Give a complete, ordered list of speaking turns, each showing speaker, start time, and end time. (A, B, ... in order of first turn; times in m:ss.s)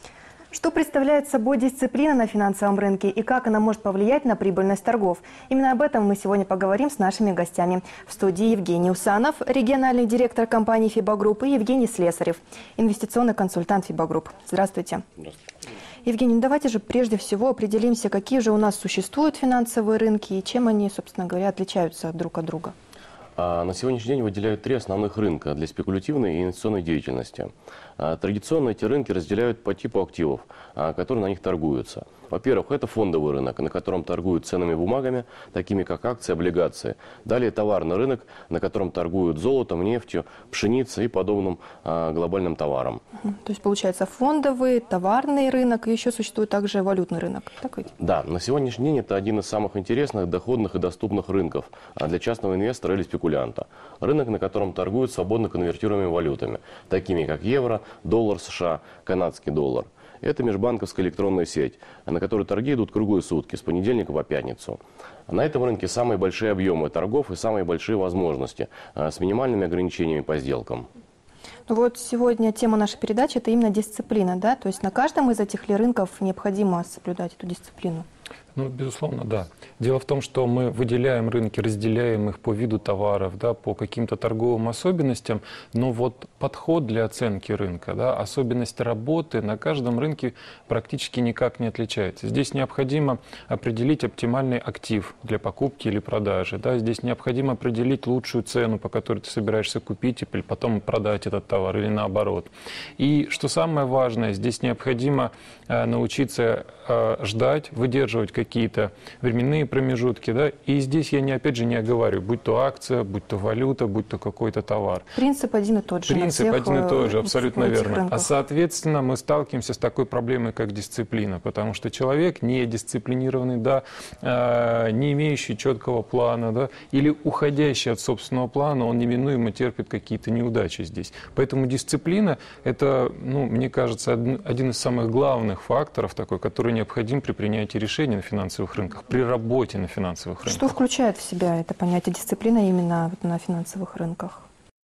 0:00.5-0:15.0 A
0:16.0-0:22.7 A
0:23.4-0:43.0 B
0:43.2-0:47.9 A
0:48.0-1:10.9 B
1:11.7-1:18.1 A
1:18.6-1:55.1 C
1:55.2-1:58.3 A
1:56.1-2:20.7 C
2:20.4-2:24.4 A